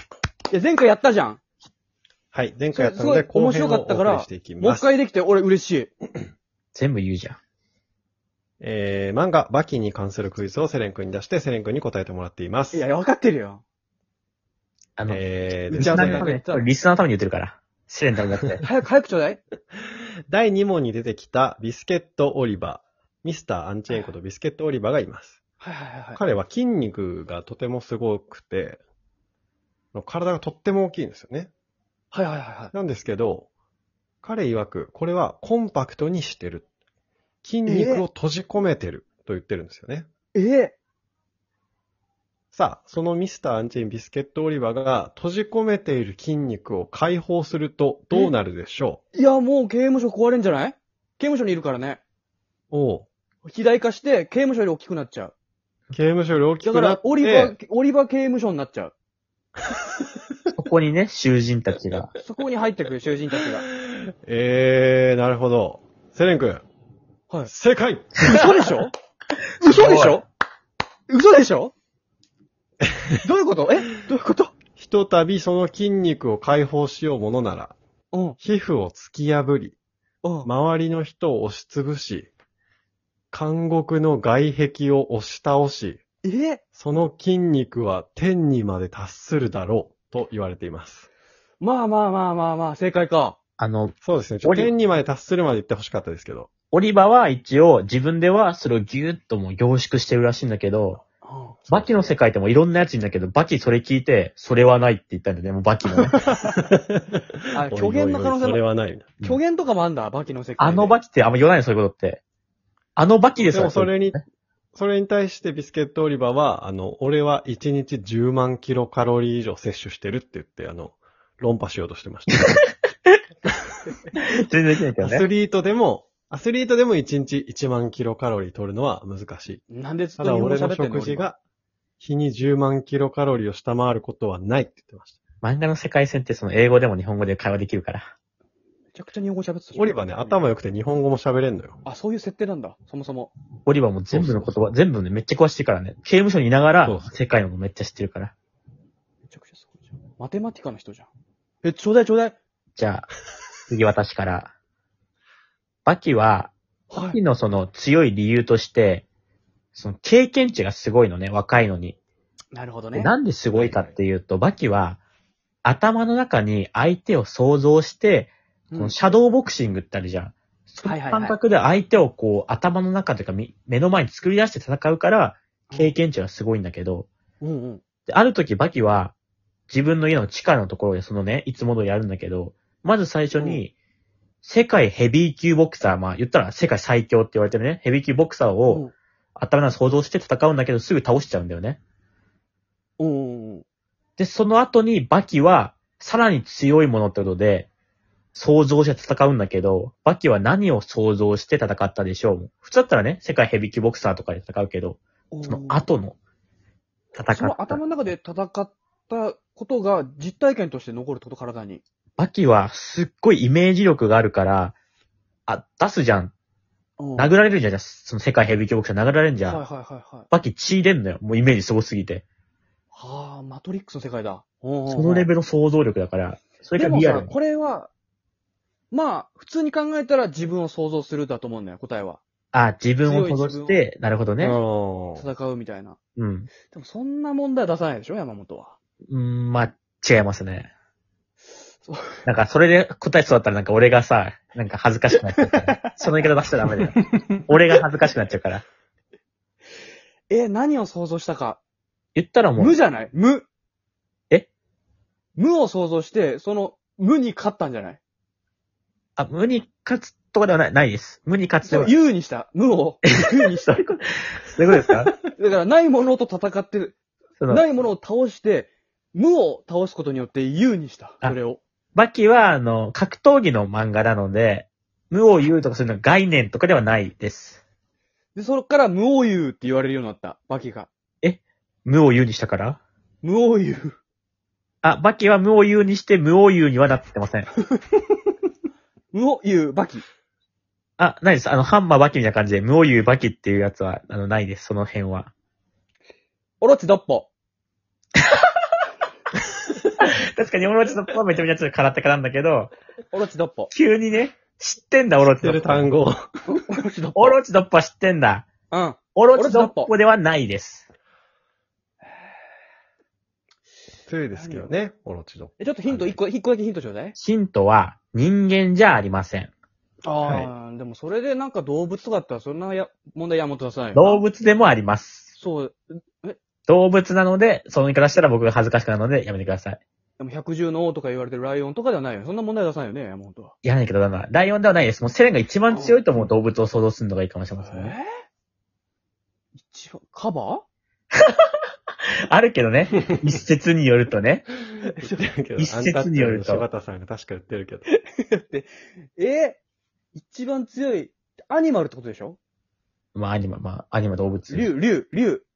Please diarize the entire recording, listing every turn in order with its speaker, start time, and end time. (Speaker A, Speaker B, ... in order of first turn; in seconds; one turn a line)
Speaker A: 0.5-1.4
Speaker B: 2.3-4.9
Speaker A: 2.7-5.9
Speaker C: 6.7-7.4
Speaker B: 8.6-12.8
Speaker A: 12.7-13.6
Speaker C: 15.0-15.2
Speaker B: 15.1-16.2
Speaker A: 15.7-16.7
Speaker C: 15.8-18.6
Speaker A: 18.6-19.4
Speaker B: 20.3-25.4
Speaker A: 25.6-26.2
Speaker B: 26.1-28.8
Speaker B: 29.9-31.5
Speaker A: 32.1-32.7
Speaker B: 32.7-33.5
Speaker B: 34.2-36.7
Speaker B: 37.4-40.1
Speaker A: 37.7-38.0
Speaker A: 40.4-40.8
Speaker B: 42.5-49.0
Speaker A: 49.1-52.0
Speaker B: 52.7-53.1
Speaker A: 53.4-55.3
Speaker B: 55.9-57.5
Speaker A: 56.6-58.9
Speaker C: 60.5-62.1
Speaker A: 62.2-63.7
Speaker B: 64.3-66.7
Speaker B: 67.5-68.2
Speaker A: 68.2-68.9
Speaker A: 69.6-70.3
Speaker C: 69.6-70.2
Speaker A: 71.1-71.7
Speaker A: 73.2-74.5
Speaker B: 74.8-77.8
Speaker A: 78.1-78.4
Speaker B: 78.4-79.8
Speaker A: 80.2-80.5
Speaker B: 80.4-82.3
Speaker B: 83.3-86.0
Speaker A: 86.2-86.6
Speaker B: 86.8-91.1
Speaker A: 91.6-93.4
Speaker C: 93.6-94.7
Speaker B: 94.0-96.5
Speaker C: 96.7-101.0
Speaker A: 101.2-101.6
Speaker C: 101.7-106.3
Speaker B: 106.4-109.2
Speaker A: 107.5-108.6
Speaker A: 109.2-111.0
Speaker C: 110.6-112.2
Speaker C: 113.0-114.2
Speaker B: 113.4-114.2
Speaker B: 114.7-122.6
Speaker C: 122.5-123.2
Speaker C: 124.2-125.3
Speaker B: 125.0-129.6
Speaker A: 129.7-131.3
Speaker B: 130.2-131.4
Speaker B: 132.0-135.2
Speaker C: 135.4-138.1
Speaker A: 138.9-140.4
Speaker B: 139.8-141.8
Speaker A: 141.8-143.3
Speaker C: 143.7-148.3
Speaker B: 144.1-144.6
Speaker B: 146.8-147.1
Speaker A: 149.3-151.1
Speaker A: 151.6-152.4
Speaker C: 152.8-153.1
Speaker C: 153.7-154.5
Speaker C: 155.9-159.1
Speaker A: 156.9-157.2
Speaker C: 159.7-162.0
Speaker A: 162.5-163.1
Speaker C: 162.9-165.0
Speaker B: 163.5-163.9
Speaker C: 165.6-177.1
Speaker A: 168.7-169.0
Speaker A: 170.8-171.4
Speaker A: 175.7-176.0
Speaker A: 177.4-177.8
Speaker C: 178.1-179.1
Speaker C: 179.7-183.7
Speaker A: 183.3-183.6
Speaker C: 184.4-191.8
Speaker A: 188.7-188.9
Speaker A: 193.0-193.7
Speaker C: 194.2-197.7
Speaker C: 198.3-206.2
Speaker A: 205.3-205.9
Speaker C: 207.2-207.8
Speaker A: 207.3-211.8
Speaker C: 212.2-214.7
Speaker C: 215.5-216.3
Speaker A: 217.0-217.3
Speaker C: 217.2-219.6
Speaker A: 219.4-220.3
Speaker C: 220.3-222.2
Speaker A: 222.9-225.3
Speaker C: 224.9-227.3
Speaker A: 226.8-227.9
Speaker A: 228.9-232.2
Speaker C: 232.5-234.6
Speaker A: 233.0-233.8
Speaker B: 234.4-235.3
Speaker A: 235.2-236.0
Speaker C: 236.2-236.5
Speaker A: 236.7-238.8
Speaker C: 239.1-240.7
Speaker A: 241.8-242.2
Speaker C: 242.2-248.6
Speaker A: 250.3-251.6
Speaker C: 252.2-252.8
Speaker A: 252.6-253.4
Speaker A: 255.4-258.0
Speaker C: 259.2-262.0
Speaker A: 261.7-263.8
Speaker C: 263.1-265.2
Speaker A: 265.3-267.0
Speaker C: 267.4-267.6
Speaker A: 267.5-271.6
Speaker C: 271.9-277.6
Speaker A: 278.4-280.9
Speaker C: 281.2-282.8
Speaker A: 283.2-284.0
Speaker C: 284.8-287.5
Speaker A: 289.1-290.0
Speaker C: 291.0-295.3
Speaker A: 296.6-297.3
Speaker C: 299.9-302.7
Speaker A: 303.1-303.7
Speaker C: 303.7-305.9
Speaker B: 305.4-306.3
Speaker A: 306.5-307.4
Speaker C: 307.2-308.5
Speaker A: 308.7-309.9
Speaker C: 309.1-310.9
Speaker B: 314.1-316.2
Speaker A: 314.3-314.7
Speaker A: 315.6-317.2
Speaker C: 317.2-319.5
Speaker A: 320.1-324.2
Speaker B: 320.2-320.5
Speaker C: 323.9-325.3
Speaker A: 325.4-326.4
Speaker C: 326.7-329.8
Speaker A: 330.2-333.5
Speaker C: 333.6-338.0
Speaker A: 335.7-336.1
Speaker A: 337.6-338.1
Speaker A: 339.6-340.6
Speaker C: 342.3-344.5
Speaker A: 344.8-345.3
Speaker B: 345.0-347.9
Speaker C: 345.6-346.7
Speaker A: 347.9-349.6
Speaker A: 350.1-352.4
Speaker C: 353.1-354.7
Speaker A: 354.5-355.4